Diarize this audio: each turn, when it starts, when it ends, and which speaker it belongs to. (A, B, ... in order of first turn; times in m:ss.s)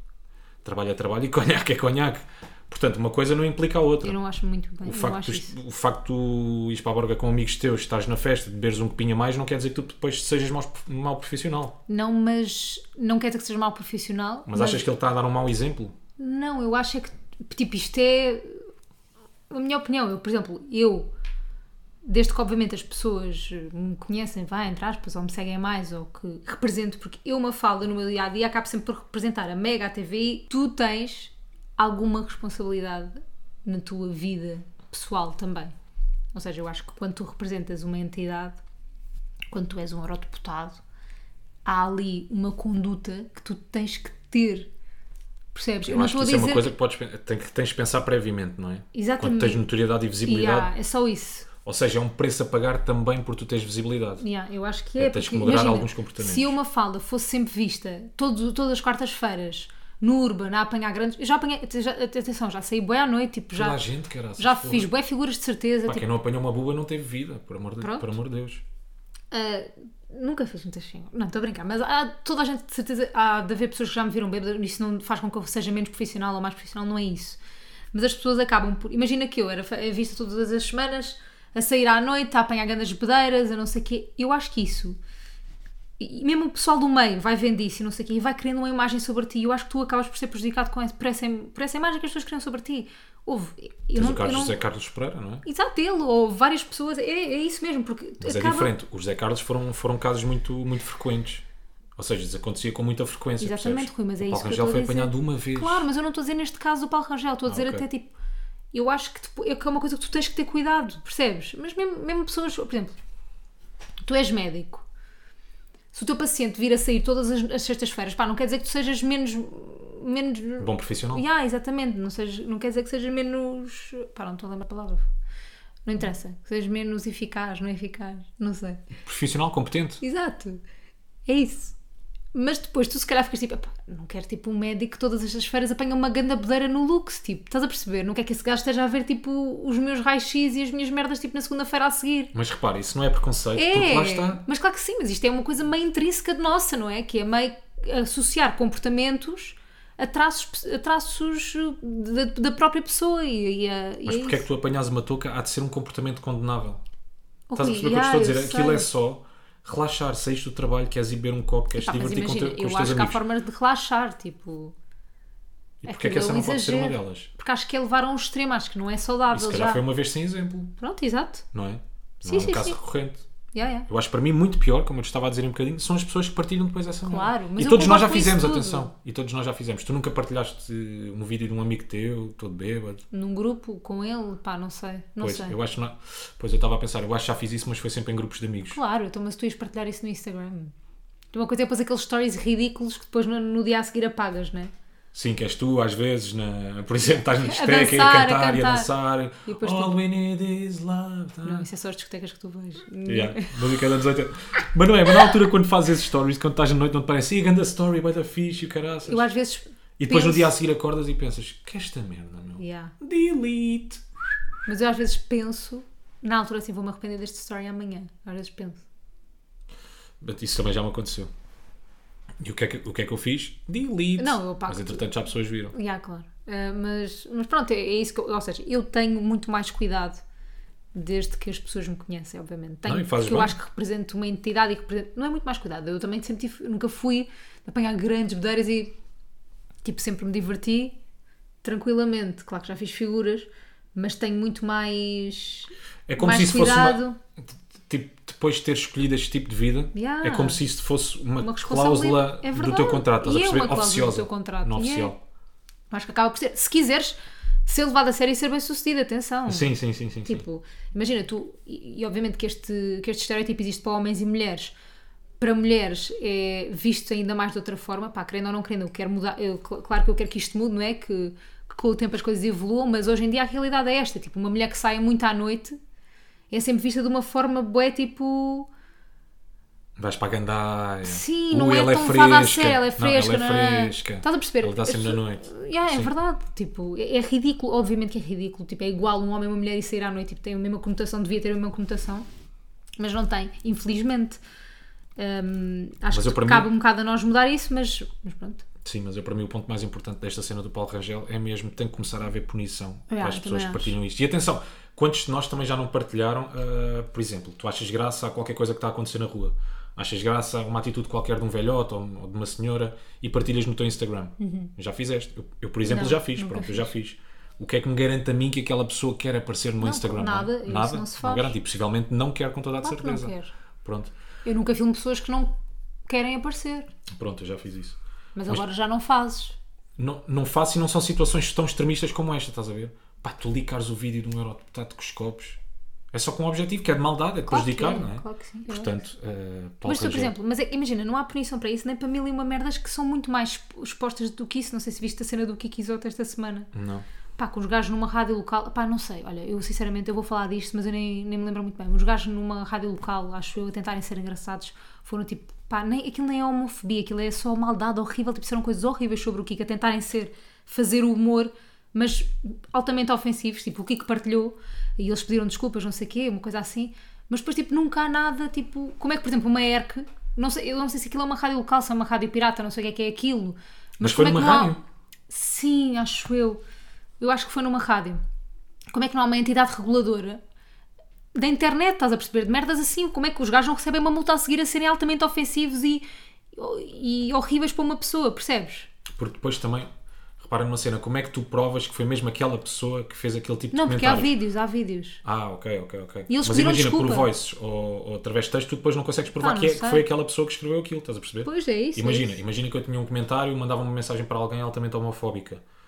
0:00.6-0:04.2 A
0:04.0-0:05.5 B
0:04.8-0:11.8 A
0:11.9-0:14.8 B
0:14.5-0:15.9 A
0:16.2-0:18.7 B
0:19.5-0:21.1 B
0:22.0-0:35.7 B
0:36.3-0:38.6 B
0:39.5-0:40.8 B
0:41.6-0:44.7 B
0:45.5-0:46.7 B
0:45.8-0:50.7 A
0:48.9-0:49.6 B
0:50.2-0:51.5 B
0:51.6-0:54.2 A
0:54.2-1:03.8 B
0:55.0-0:56.5 A
1:03.6-1:04.9 A
1:04.4-1:06.1 B
1:05.8-1:08.6 A
1:07.8-1:08.1 B
1:09.3-1:17.4 B
1:17.9-1:25.0 B
1:26.0-1:34.6 B
1:33.9-1:35.4 A
1:35.4-1:38.7 B
1:38.2-1:41.4 A
1:42.0-1:45.8 A
1:43.4-1:48.1 B
1:47.5-1:47.8 A
1:48.7-1:53.0 B
1:54.0-1:54.8 B
1:55.9-2:05.1 B
2:00.6-2:01.2 A
2:05.8-2:08.8 B
2:09.0-2:10.0 A
2:10.0-2:10.6 B
2:11.2-2:11.7 B
2:12.3-2:22.3 B
2:22.3-2:24.4 A
2:23.5-2:34.4 B
2:34.0-2:36.8 A
2:37.5-2:38.9 B
2:37.6-2:43.2 A
2:41.7-2:44.7 B
2:45.8-2:47.3 A
2:45.8-2:49.8 B
2:49.3-2:50.7 A
2:50.8-2:51.5 B
2:51.5-2:53.2 A
2:52.2-2:52.8 B
2:53.5-2:53.9 B
2:53.9-3:03.0 A
2:57.0-2:58.9 B
3:03.1-3:05.6 B
3:05.2-3:08.8 A
3:08.7-3:10.7 B
3:11.3-3:14.7 B
3:15.1-3:21.6 A
3:17.1-3:18.9 B
3:19.4-3:20.0 B
3:21.4-3:23.9 B
3:23.0-3:29.2 A
3:29.0-3:30.5 B
3:30.0-3:34.0 A
3:32.6-3:32.9 B
3:34.6-3:38.8 B
3:40.2-3:41.3 A
3:42.4-3:45.7 A
3:44.2-3:45.1 B
3:45.7-3:50.2 B
3:50.9-3:58.9 B
3:52.8-3:53.5 A
3:59.8-4:01.0 B
4:01.6-4:07.2 B
4:06.1-4:15.2 A
4:09.9-4:10.6 B
4:11.4-4:15.1 B
4:15.9-4:19.7 B
4:19.5-4:20.4 A
4:20.2-4:24.7 B
4:25.4-4:35.8 B
4:36.5-4:38.7 B
4:40.0-4:46.1 A
4:41.0-4:52.2 B
4:53.0-4:54.4 B
4:55.2-4:58.6 B
4:56.1-4:56.7 A
4:58.8-5:24.1 A
5:03.1-5:03.9 B
5:14.4-5:14.7 B
5:15.8-5:16.9 B
5:19.8-5:21.6 B
5:22.8-5:23.5 B
5:24.4-5:25.5 B
5:26.0-5:26.9 B
5:27.1-5:28.0 A
5:28.3-5:29.6 B
5:30.0-5:35.6 A
5:36.1-5:40.3 A
5:37.5-5:38.9 B
5:39.8-5:46.7 B
5:46.7-5:47.0 A
5:47.4-6:16.6 B
6:14.0-6:14.8 A
6:17.2-6:18.2 B
6:18.9-6:20.4 B
6:21.3-6:28.9 B
6:29.0-6:34.4 A
6:33.7-6:35.2 B
6:35.2-6:45.6 A
6:36.3-6:37.3 B
6:39.4-6:40.0 B
6:41.4-6:42.4 B